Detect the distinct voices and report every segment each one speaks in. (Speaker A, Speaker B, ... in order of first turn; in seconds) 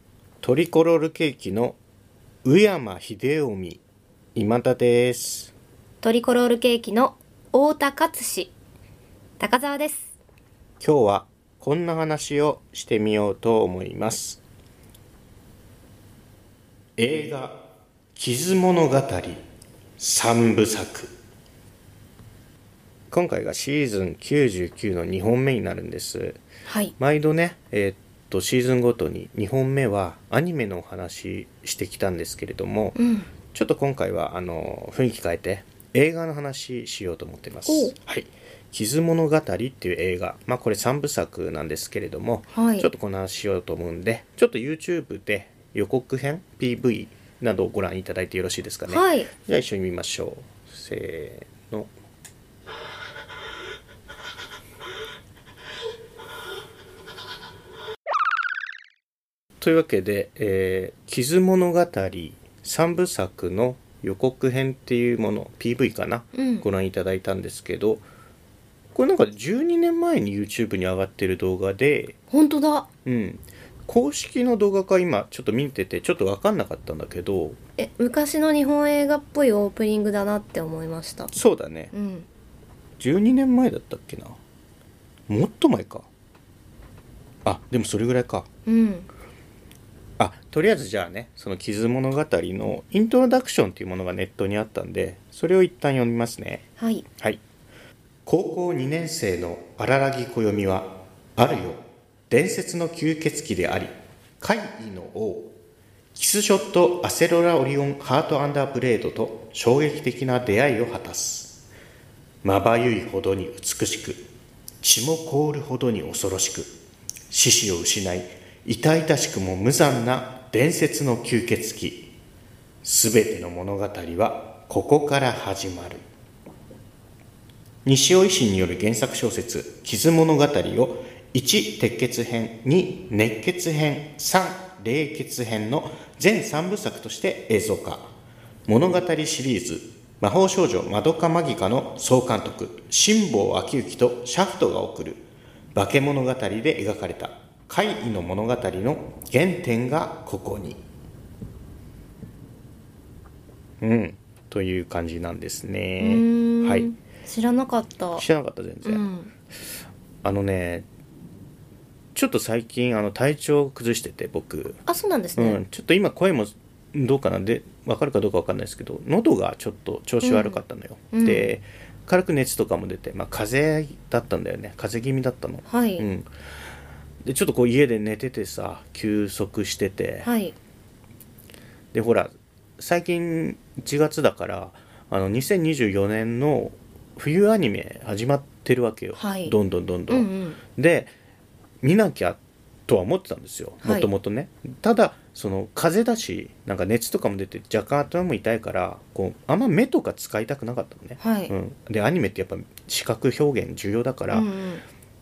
Speaker A: 0.4-1.8, 2.4-3.8, 4.3-5.5, 10.8-14.4, 17.0-17.6, 18.1-19.4, 20.0-21.1, 23.1-26.4, 27.0-33.0, 33.5-51.9, 59.6-68.0, 68.9-72.2, 73.0-77.6, 81.3-81.9, 83.0-84.4, 85.3-86.1, 87.4-88.5, 90.2-96.7, 98.2-105.5, 106.1-111.5, 112.4-114.2, 114.8-116.7, 117.3-122.1, 122.8-126.0, 127.8-138.1, 138.7-150.8, 153.8-156.9, 158.1-159.1, 160.2-160.8, 162.1-164.8, 165.3-176.3, 177.2-180.3, 181.9-191.1, 191.8-204.5
Speaker B: 6.0-8.5, 9.4-10.1, 26.6-26.9, 33.0-33.3, 37.7-37.9, 42.5-42.9, 48.9-49.3, 66.3-66.7, 72.3-72.9, 77.8-81.3, 81.9-82.3, 88.7-89.1, 96.8-97.0, 156.0-158.2, 158.8-159.3, 164.8-165.6, 170.2-170.6, 171.1-171.5, 175.7-176.1, 180.2-180.5, 189.2-189.6, 190.1-190.6, 193.8-194.1, 201.2-201.5, 204.3-204.8